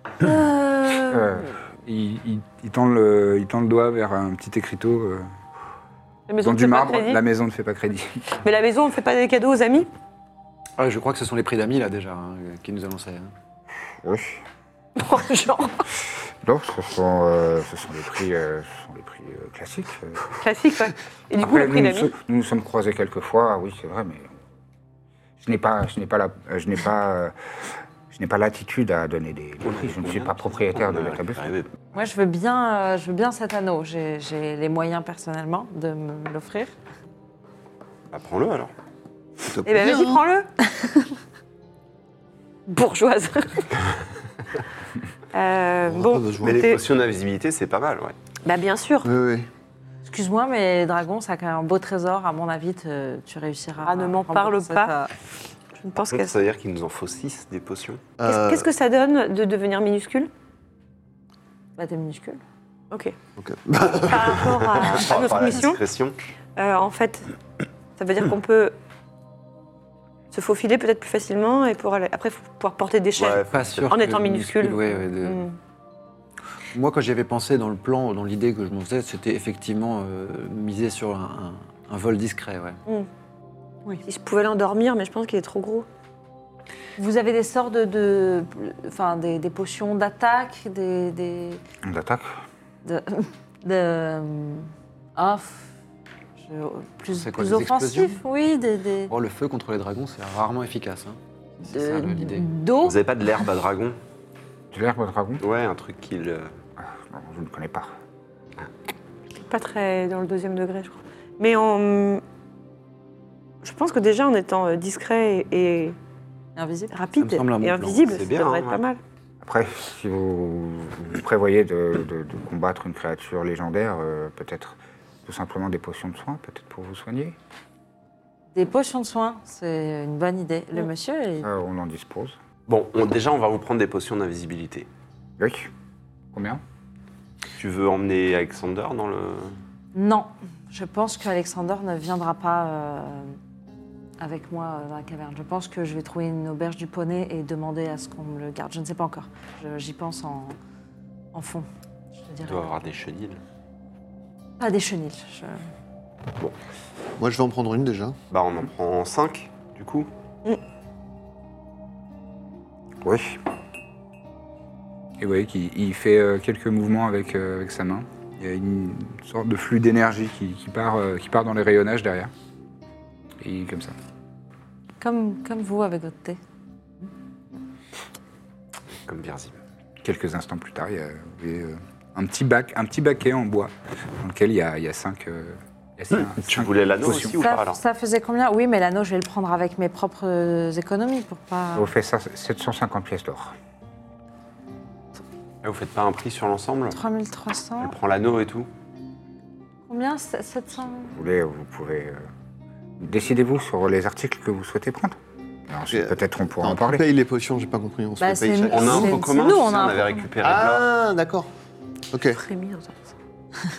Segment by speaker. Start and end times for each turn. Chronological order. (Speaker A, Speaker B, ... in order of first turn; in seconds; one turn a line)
Speaker A: 0.2-1.3
Speaker B: 1.1-5.3
Speaker C: 6.3-7.2
Speaker B: 6.4-8.2
Speaker C: 8.3-9.9
Speaker D: 10.8-13.3
Speaker B: 14.0-14.4
Speaker C: 15.0-15.8
Speaker B: 16.4-20.2
Speaker C: 20.4-22.1
Speaker B: 21.4-24.4
Speaker B: 25.4-27.4
Speaker B: 28.1-31.5
Speaker E: 29.6-31.8
Speaker A: 31.9-36.7
Speaker E: 38.1-38.7
Speaker F: 39.5-40.2
Speaker C: 39.6-40.5
Speaker C: 42.7-43.7
Speaker C: 45.3-46.8
Speaker F: 45.9-46.7
Speaker E: 46.4-48.2
Speaker C: 48.4-49.1
Speaker F: 49.0-49.5
Speaker A: 50.0-55.1
Speaker C: 53.8-55.1
Speaker C: 55.8-56.4
Speaker E: 56.1-58.0
Speaker F: 58.2-58.7
Speaker C: 58.3-60.3
Speaker A: 61.8-62.4
Speaker F: 63.4-64.9
Speaker C: 64.0-65.8
Speaker E: 64.8-66.2
Speaker C: 66.6-67.3
Speaker C: 68.0-68.8
Speaker C: 70.3-75.6
Speaker E: 73.2-73.9
Speaker D: 73.5-75.4
Speaker D: 76.7-82.8
Speaker C: 84.0-85.9
Speaker A: 87.0-91.6
Speaker B: 91.8-92.3
Speaker A: 92.8-95.7
Speaker A: 96.4-99.1
Speaker D: 97.1-98.2
Speaker D: 99.1-102.5
Speaker A: 101.7-103.0
Speaker E: 102.8-104.0
Speaker B: 104.7-105.4
Speaker E: 105.4-106.5
Speaker B: 106.8-107.9
Speaker C: 109.4-112.2
Speaker C: 113.6-116.0
Speaker A: 116.6-117.0
Speaker C: 116.9-119.0
Speaker D: 117.2-118.2
Speaker E: 118.1-118.8
Speaker B: 119.4-127.4
Speaker A: 128.6-131.5
Speaker B: 131.4-132.4
Speaker E: 132.7-134.9
Speaker B: 135.4-135.7
Speaker B: 136.3-136.6
Speaker E: 137.6-139.6
Speaker A: 139.9-143.4
Speaker A: 144.2-150.6
Speaker A: 151.3-152.7
Speaker E: 152.4-153.4
Speaker A: 154.6-155.6
Speaker F: 157.2-158.2
Speaker E: 158.3-160.1
Speaker B: 163.0-163.4
Speaker B: 165.2-172.3
Speaker B: 173.4-174.0
Speaker A: 175.0-176.4
Speaker E: 178.9-179.6
Speaker B: 180.0-187.4
Speaker E: 186.1-187.8
Speaker A: 187.2-191.9
Speaker B: 191.8-193.6
Speaker E: 195.6-197.0
Speaker A: 196.9-197.9
Speaker E: 197.8-198.7
Speaker A: 199.9-201.1
Speaker B: 201.2-202.3
Speaker B: 203.0-205.2
Speaker B: 205.7-207.0
Speaker F: 205.9-209.2
Speaker A: 208.2-210.3
Speaker E: 208.7-210.9
Speaker F: 210.4-211.5
Speaker F: 212.1-212.4
Speaker C: 212.3-213.1